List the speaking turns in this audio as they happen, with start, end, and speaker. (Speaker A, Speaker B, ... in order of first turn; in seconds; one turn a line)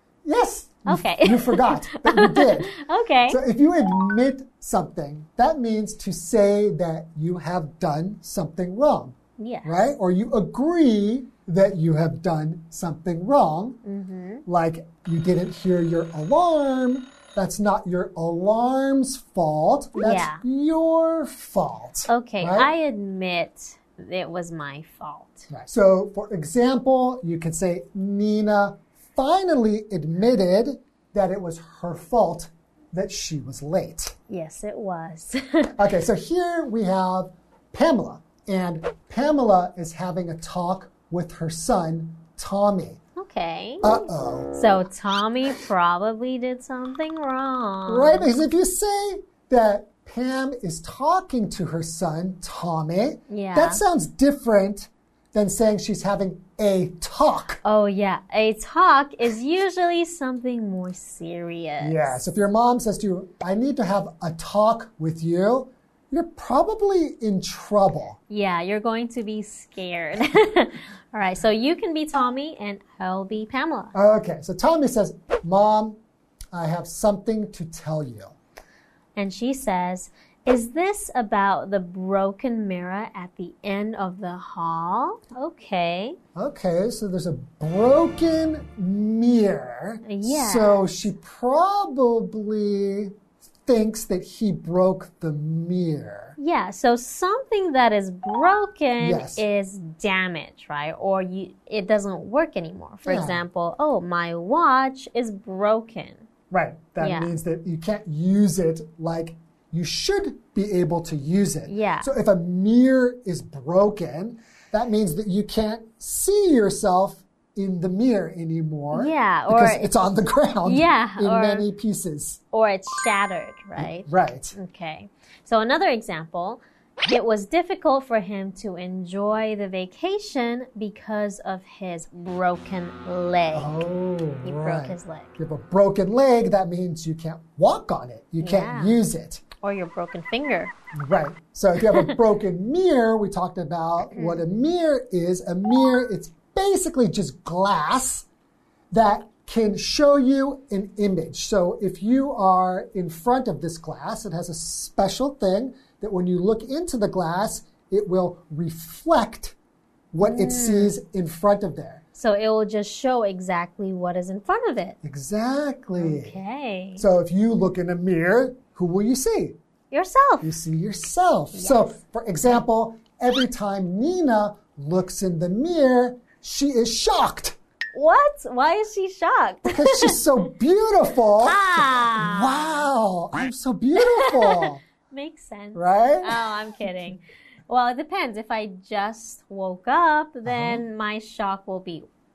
Speaker A: 0.2-2.7
Speaker B: 0.9-3.4
Speaker A: 3.3-13.8
Speaker B: 9.4-9.9
Speaker B: 13.8-14.4
Speaker A: 14.5-22.7
Speaker B: 20.0-20.4
Speaker B: 22.1-25.5
Speaker A: 25.5-34.1
Speaker B: 34.3-35.7
Speaker A: 35.8-43.0
Speaker B: 43.2-48.3
Speaker A: 43.8-44.5
Speaker A: 47.9-57.6
Speaker B: 53.3-53.8
Speaker B: 57.6-62.2
Speaker A: 61.8-68.2
Speaker B: 68.3-73.9
Speaker A: 73.9-76.0
Speaker A: 76.5-78.4
Speaker B: 79.2-86.2
Speaker A: 86.3-96.4
Speaker B: 90.0-91.1
Speaker B: 96.4-106.3
Speaker A: 99.0-99.4
Speaker A: 103.1-103.4
Speaker A: 106.5-122.4
Speaker B: 107.0-107.3
Speaker B: 111.7-112.1
Speaker B: 118.9-119.9
Speaker B: 120.7-121.7
Speaker B: 122.5-133.8
Speaker A: 123.8-124.5
Speaker A: 133.5-139.4
Speaker B: 134.4-135.4
Speaker B: 138.4-139.0
Speaker B: 139.6-140.7
Speaker A: 140.9-148.3
Speaker B: 144.1-144.4
Speaker A: 148.9-159.6
Speaker A: 160.1-162.0
Speaker B: 160.2-160.9
Speaker B: 162.2-165.0
Speaker A: 165.0-166.4
Speaker B: 166.0-167.1
Speaker A: 167.0-169.6
Speaker B: 169.9-170.5
Speaker A: 170.4-177.6
Speaker B: 171.5-171.9
Speaker B: 177.9-180.2
Speaker A: 179.7-184.8
Speaker B: 181.4-182.9
Speaker B: 185.1-192.1
Speaker A: 185.8-186.4
Speaker A: 190.5-190.8